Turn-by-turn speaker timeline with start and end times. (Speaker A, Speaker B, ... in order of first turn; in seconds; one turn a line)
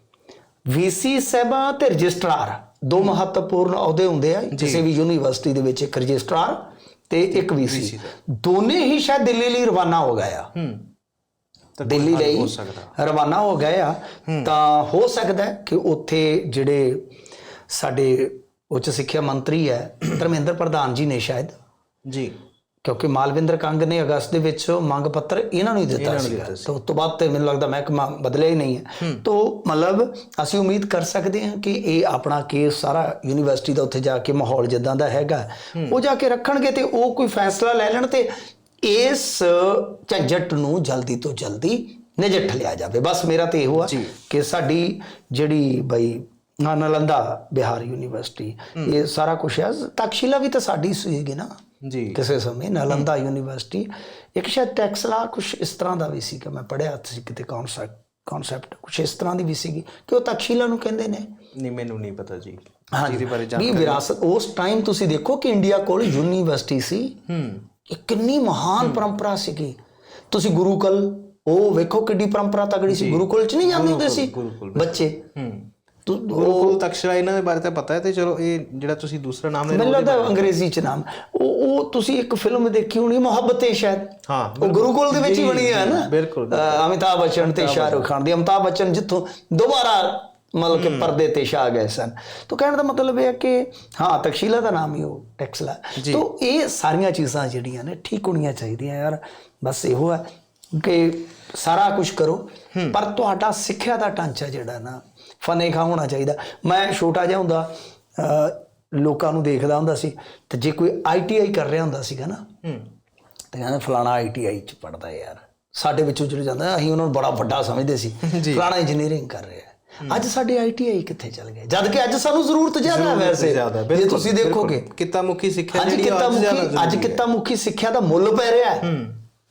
Speaker A: 0.7-10.5
Speaker B: 4.5-4.8
Speaker B: 7.3-8.1
Speaker B: 10.5-10.9
Speaker B: 11.8-12.9
Speaker A: 11.8-17.1
Speaker A: 17.7-21.5
Speaker B: 22.1-22.4
Speaker A: 22.8-38.3
Speaker B: 25.9-26.8
Speaker A: 38.8-51.6
Speaker B: 43.7-44.1
Speaker B: 51.8-52.2
Speaker A: 52.1-61.3
Speaker B: 61.5-64.0
Speaker A: 62.9-67.2
Speaker B: 67.3-67.6
Speaker A: 67.9-69.8
Speaker A: 70.3-75.2
Speaker B: 72.9-75.7
Speaker A: 76.0-76.8
Speaker B: 76.3-80.6
Speaker A: 79.7-112.4
Speaker B: 84.3-86.8
Speaker B: 87.4-88.1
Speaker B: 90.7-91.1
Speaker B: 96.0-96.2
Speaker B: 112.6-112.9
Speaker A: 113.5-124.9
Speaker B: 118.2-118.7
Speaker B: 122.8-127.2
Speaker A: 125.7-128.9
Speaker B: 128.8-129.2